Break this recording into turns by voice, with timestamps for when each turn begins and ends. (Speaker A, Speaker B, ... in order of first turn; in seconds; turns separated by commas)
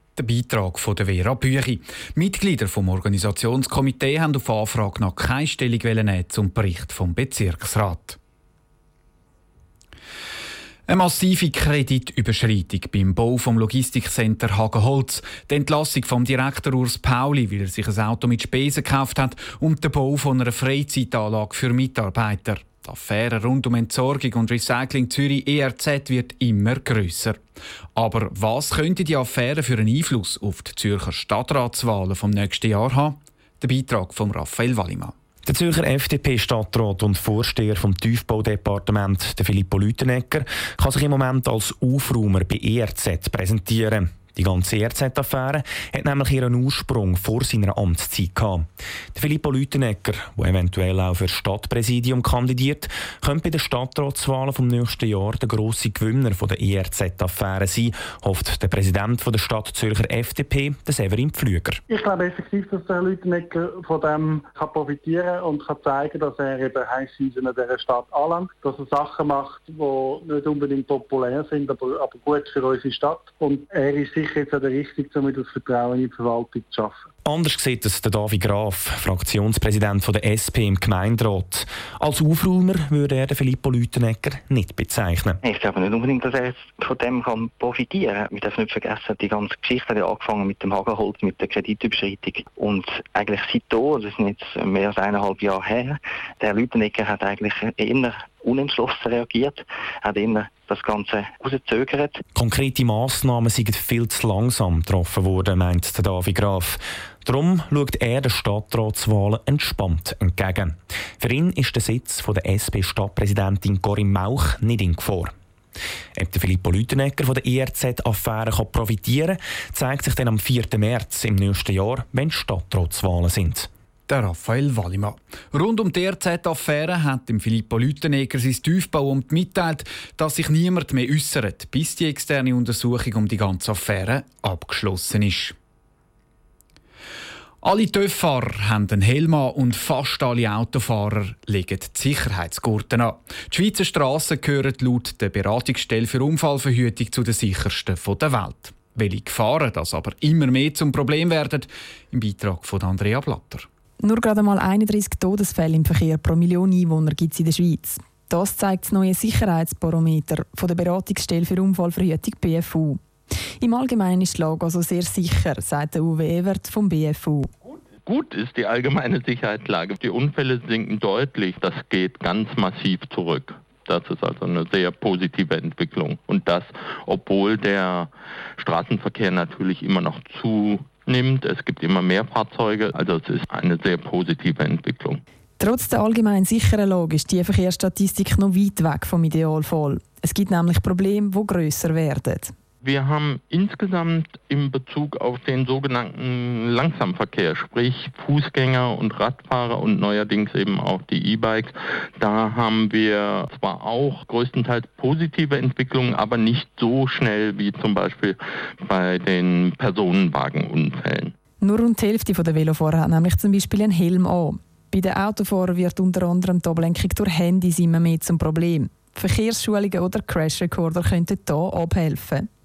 Speaker A: 0.2-8.2, Speaker A: 10.9-27.4, Speaker A: 28.0-35.1, Speaker B: 35.5-61.8, Speaker C: 61.9-77.0, Speaker B: 77.3-85.4, Speaker D: 85.4-102.2, Speaker B: 102.3-115.3, Speaker B: 116.2-123.7, Speaker A: 124.1-135.6, Speaker A: 137.6-153.7, Speaker E: 154.0-163.0, Speaker E: 163.6-167.5, Speaker F: 168.1-185.2, Speaker E: 185.6-192.5, Speaker F: 192.8-211.3, Speaker E: 211.6-222.5